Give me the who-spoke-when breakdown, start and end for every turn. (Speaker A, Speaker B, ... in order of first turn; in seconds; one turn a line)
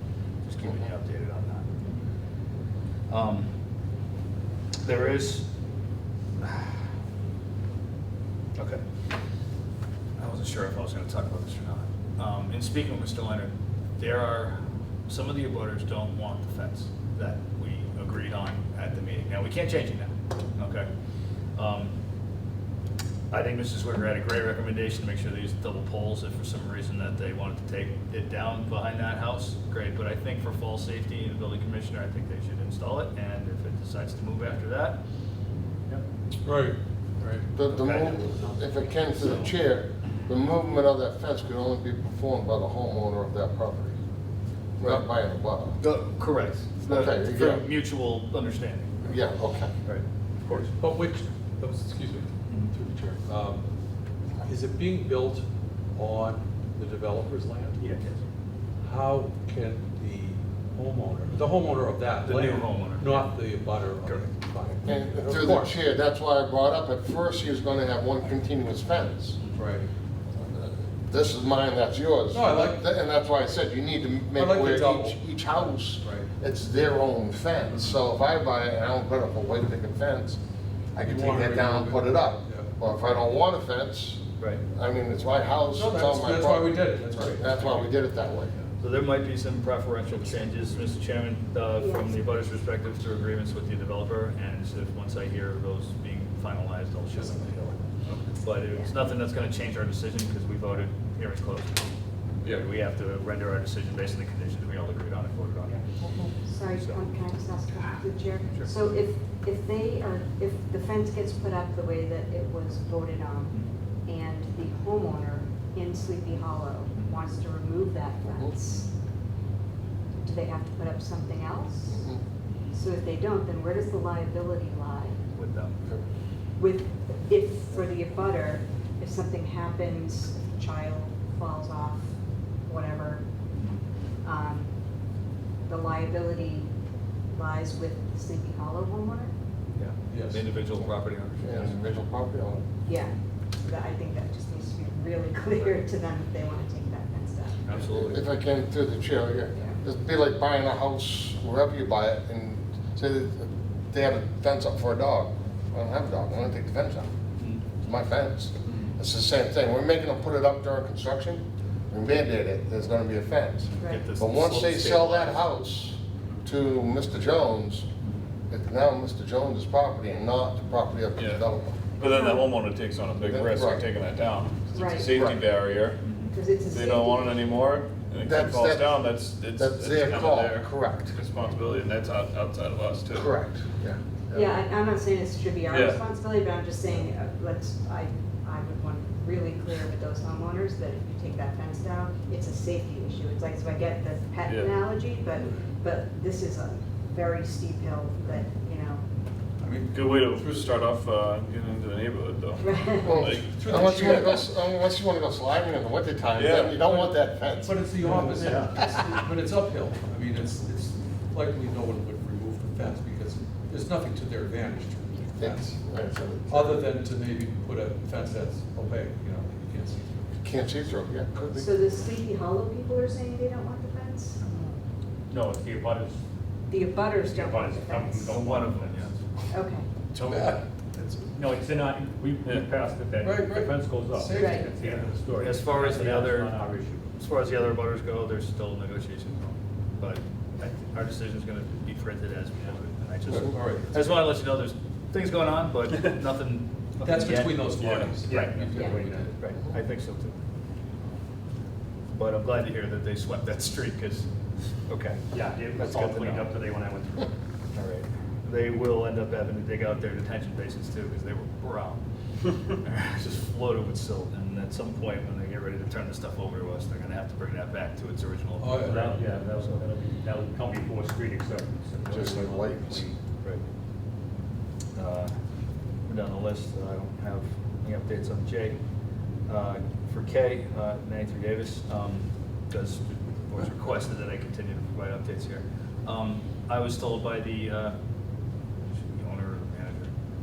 Speaker A: 0.4-1.8
Speaker A: 3.1-3.5
Speaker A: 4.8-5.5
Speaker A: 6.4-6.8
Speaker A: 8.6-8.8
Speaker A: 10.2-20.9
Speaker A: 21.6-21.9
Speaker A: 23.3-35.0
Speaker B: 36.5-37.5
Speaker C: 37.5-44.0
Speaker A: 37.7-38.4
Speaker A: 39.2-39.5
Speaker C: 44.8-45.8
Speaker A: 45.8-49.2
Speaker C: 46.9-47.7
Speaker C: 49.0-49.7
Speaker A: 49.8-50.7
Speaker B: 50.5-53.6
Speaker A: 52.5-52.8
Speaker B: 54.4-57.8
Speaker A: 57.9-58.2
Speaker B: 58.8-65.8
Speaker A: 62.2-63.3
Speaker C: 64.8-69.4
Speaker B: 69.5-69.9
Speaker C: 70.4-80.4
Speaker B: 72.3-72.9
Speaker B: 74.3-76.3
Speaker C: 81.0-88.5
Speaker B: 81.0-82.7
Speaker B: 85.8-87.9
Speaker A: 88.8-97.8
Speaker D: 91.8-92.2
Speaker A: 98.4-101.9
Speaker A: 102.4-107.1
Speaker D: 106.0-118.9
Speaker C: 118.3-118.5
Speaker D: 120.2-122.1
Speaker C: 121.9-122.2
Speaker D: 122.7-125.2
Speaker A: 125.3-125.8
Speaker D: 126.6-132.1
Speaker D: 132.7-133.2
Speaker D: 134.2-134.7
Speaker D: 135.7-136.7
Speaker D: 137.3-139.3
Speaker A: 139.8-141.8
Speaker B: 140.1-140.5
Speaker C: 141.4-142.6
Speaker D: 142.8-147.7
Speaker A: 147.7-148.2
Speaker C: 147.9-157.1
Speaker D: 149.5-149.8
Speaker A: 157.4-157.6
Speaker C: 157.8-167.9
Speaker A: 163.8-165.5
Speaker C: 168.5-171.8
Speaker E: 171.2-171.4
Speaker E: 171.9-183.3
Speaker D: 172.1-172.4
Speaker C: 173.2-173.9
Speaker D: 174.7-175.3
Speaker C: 175.1-175.4
Speaker A: 176.1-176.3
Speaker D: 176.3-177.4
Speaker C: 178.2-179.0
Speaker C: 179.6-181.1
Speaker C: 183.1-184.5
Speaker D: 184.3-199.0
Speaker E: 185.7-186.0
Speaker E: 194.4-194.8
Speaker B: 199.6-200.6
Speaker E: 199.9-204.3
Speaker D: 202.6-203.4
Speaker C: 203.0-207.8
Speaker B: 203.3-204.5
Speaker E: 206.3-207.1
Speaker B: 207.6-215.8
Speaker C: 215.4-216.8
Speaker B: 216.5-220.4
Speaker C: 220.4-221.7
Speaker D: 221.6-224.7
Speaker A: 224.4-224.7
Speaker F: 225.3-226.2
Speaker D: 226.7-228.3
Speaker F: 227.1-229.2
Speaker A: 228.3-229.1
Speaker D: 229.5-229.9
Speaker A: 230.2-230.6
Speaker B: 230.2-231.2
Speaker F: 231.3-237.1
Speaker B: 233.2-235.3
Speaker D: 234.4-234.7
Speaker A: 235.4-236.6
Speaker A: 237.2-247.7
Speaker B: 243.3-244.2
Speaker B: 247.0-249.3
Speaker E: 247.8-248.1
Speaker F: 248.3-249.3
Speaker A: 248.3-250.4
Speaker A: 252.1-254.3
Speaker A: 254.9-256.5
Speaker F: 255.3-257.3
Speaker A: 257.7-269.8
Speaker B: 268.6-269.1
Speaker F: 268.8-273.2
Speaker C: 272.1-273.1
Speaker A: 274.9-275.3
Speaker A: 276.1-278.8
Speaker A: 279.5-288.0
Speaker A: 288.9-290.1